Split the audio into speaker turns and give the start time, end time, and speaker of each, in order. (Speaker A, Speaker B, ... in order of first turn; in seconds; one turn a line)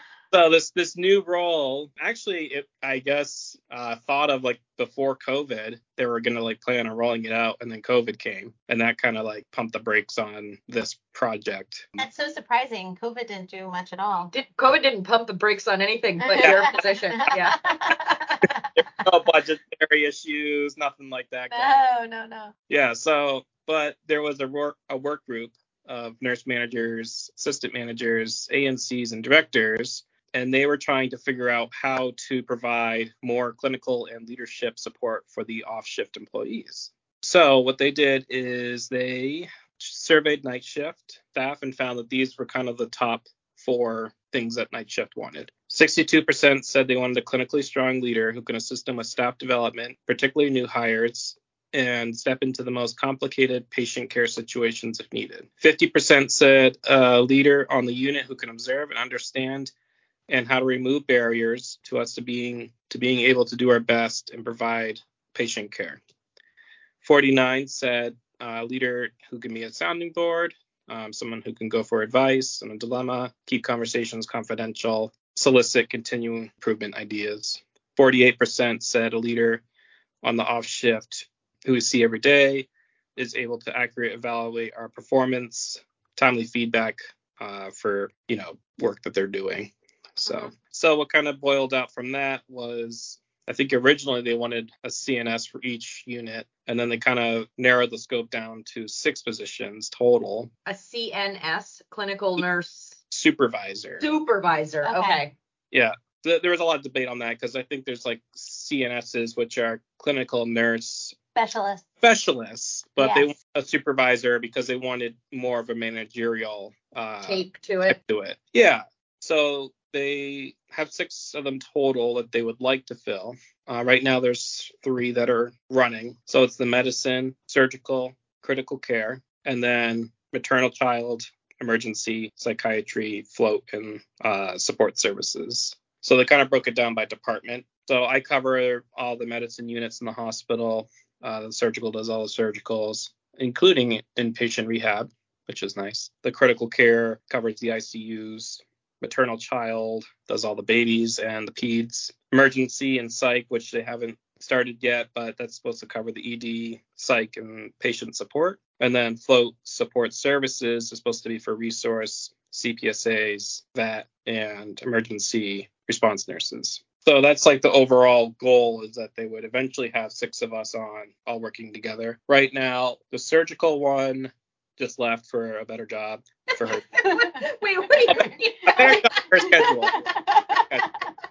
Speaker A: 0.3-12.1
Speaker B: 12.0-14.3
Speaker C: 14.3-17.6
Speaker B: 16.2-18.9
Speaker A: 16.4-16.8
Speaker A: 18.8-21.9
Speaker B: 21.5-22.5
Speaker A: 22.7-59.7
Speaker A: 60.3-66.0
Speaker A: 67.0-79.6
Speaker A: 80.2-100.5
Speaker C: 100.7-103.0
Speaker A: 103.1-104.1
Speaker C: 104.0-105.3
Speaker B: 104.8-105.2
Speaker A: 105.7-111.2
Speaker B: 111.3-111.8
Speaker A: 112.0-176.8
Speaker B: 113.0-113.3
Speaker C: 117.2-118.0
Speaker C: 176.5-179.1
Speaker B: 177.0-177.4
Speaker B: 178.1-181.1
Speaker A: 178.8-180.1